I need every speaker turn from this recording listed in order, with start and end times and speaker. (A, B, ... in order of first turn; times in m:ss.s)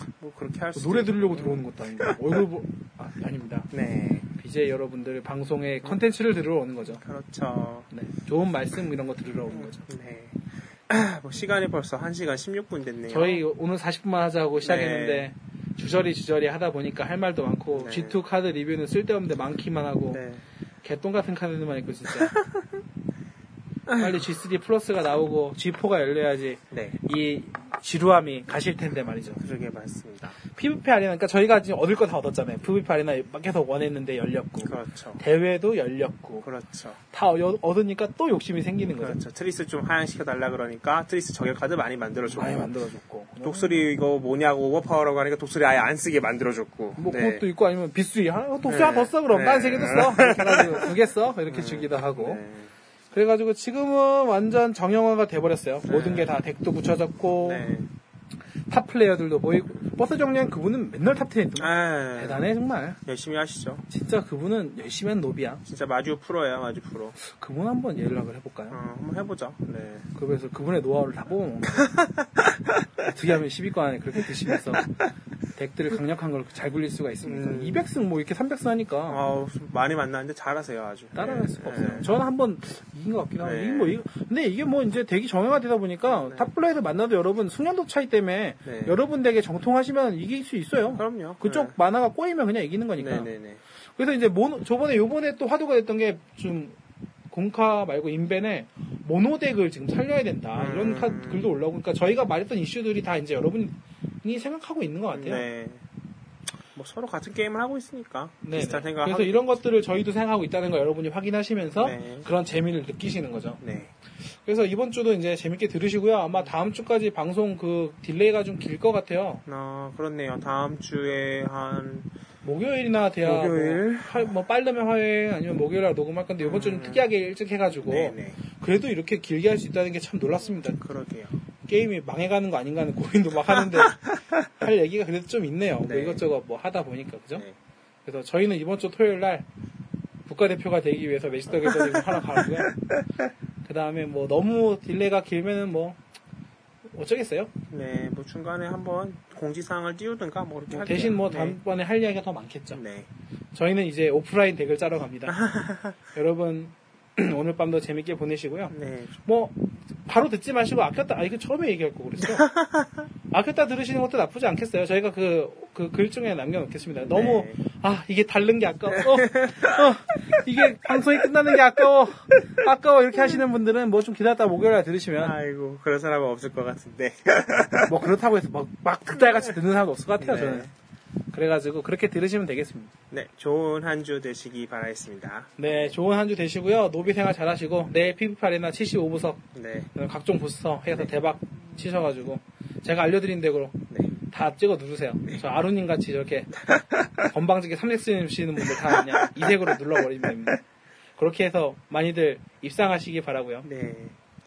0:00.2-0:02.4 A
0:00.7-0:03.7 B
0:03.7-0:04.3 A
0:04.4-0:07.0 B
0:07.0-0:07.9 A
0:07.9-0:09.8 B
0:09.5-0:13.4 A
0:13.1-0:20.2 B
0:14.6-0:15.3 A
0:17.7-0:18.2 A
0:20.1-0:20.4 A
0:20.8-0:22.4 B
0:22.2-0:22.6 A
0:23.9-0:24.2 A
0:24.0-0:29.4 B
0:26.7-0:27.0 A
0:29.4-0:30.4 A
0:30.5-0:36.4 B
0:34.6-0:35.2 A
0:36.4-0:37.0 A
0:37.1-0:39.2 B
0:39.0-0:42.7 A
0:42.3-0:43.9 B
0:43.4-0:47.4 A
0:47.0-0:52.4 B
0:48.7-0:50.9 A
0:51.5-0:52.7 A
0:53.1-0:57.7 B
0:55.9-0:56.3 A
0:57.4-0:57.9 A
0:58.7-1:03.0 B
1:01.6-1:02.4 A
1:03.1-1:03.8 A
1:03.9-1:05.6 B
1:05.6-1:07.2 A
1:07.2-1:08.8 B
1:08.7-1:10.1 A
1:10.2-1:11.9 B
1:11.6-1:13.2 A
1:13.0-1:14.9 B
1:15.6-1:19.2 B
1:17.2-1:17.9 A
1:19.1-1:22.1 A
1:21.2-1:33.3 B
1:23.4-1:24.0 A
1:26.1-1:26.5 A
1:28.6-1:28.9 A
1:30.9-1:31.7 A
1:33.0-1:33.6 A
1:34.0-1:36.7 B
1:37.3-1:45.4 B
1:40.6-1:41.5 A
1:45.1-1:45.8 A
1:46.7-1:49.4 A
1:48.4-1:53.6 B
1:51.8-1:52.3 A
1:53.6-1:53.9 A
1:54.4-1:59.4 B
1:59.4-2:02.1 A
2:02.4-2:10.8 B
2:03.2-2:04.3 A
2:06.4-2:07.1 A
2:07.8-2:08.4 A
2:10.8-2:11.3 A
2:11.7-2:17.4 B
2:15.8-2:16.2 A
2:18.1-2:19.5 B
2:20.3-2:22.8 B
2:21.6-2:23.0 A
2:23.6-2:26.0 B
2:26.9-2:27.5 B
2:27.7-2:31.6 A
2:30.7-2:32.8 B
2:32.8-2:33.1 A
2:33.5-2:35.4 B
2:35.3-2:36.0 A
2:36.1-2:38.7 B
2:38.7-2:39.2 A
2:39.2-2:42.5 B
2:42.2-2:43.1 A
2:43.3-2:55.4 B
2:47.1-2:47.6 A
2:48.9-2:49.9 A
2:55.2-2:58.1 A
2:57.9-3:00.7 B
3:00.2-3:00.7 A
3:01.3-3:02.9 B
3:03.1-3:05.9 A
3:05.6-3:16.6 B
3:09.6-3:09.9 A
3:13.9-3:14.2 A
3:16.6-3:17.3 A
3:17.3-3:20.6 B
3:18.7-3:20.6 A
3:21.2-3:23.7 B
3:23.6-3:24.2 A